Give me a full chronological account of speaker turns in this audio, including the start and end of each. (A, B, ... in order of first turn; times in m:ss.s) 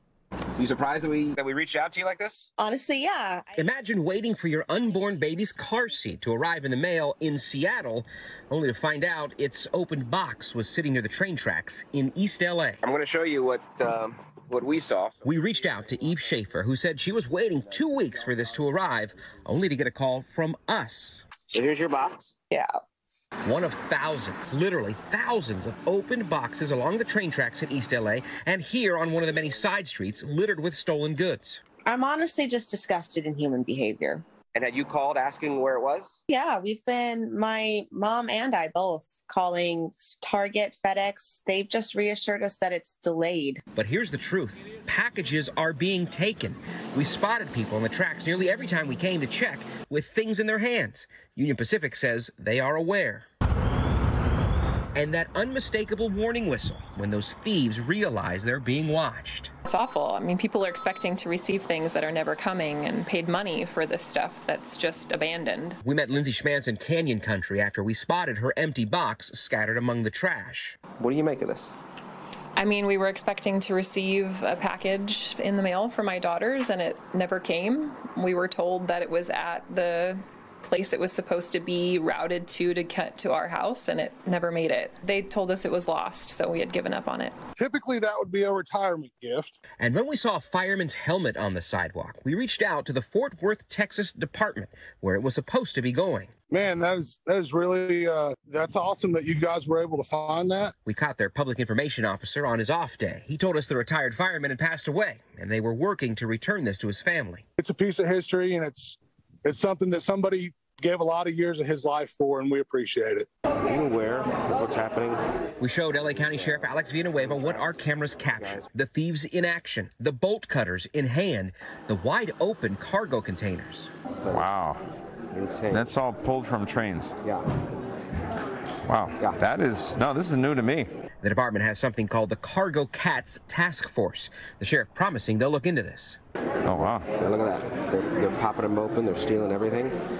0:01.0-0:02.4 A
0:02.6-0:03.7 B
0:03.6-0:12.8 C
0:04.7-0:05.9 B
0:12.8-0:15.3 A
0:15.2-0:21.3 C
0:17.7-0:18.3 A
0:21.5-0:22.4 A
0:23.4-0:31.6 C
0:31.8-0:34.3 B
0:34.6-0:36.1 A
0:36.3-0:43.6 B
0:43.7-0:53.3 C
0:55.0-0:59.5 C
0:59.7-1:05.8 D
1:05.8-1:10.8 C
1:11.0-1:11.7 A
1:12.6-1:27.4 D
1:27.6-1:29.6 E
1:29.8-1:36.3 C
1:36.5-1:40.7 E
1:40.8-1:47.4 C
1:47.6-1:53.3 E
1:53.6-1:55.2 A
1:55.6-2:03.9 C
1:56.4-1:57.8 A
2:04.2-2:04.6 A
2:04.3-2:04.8 F
2:05.3-2:06.0 A
2:05.7-2:07.2 F
2:08.9-2:10.9 F
2:09.2-2:09.4 A
2:11.2-2:16.2 C
2:16.7-2:17.1 F
2:17.1-2:20.0 A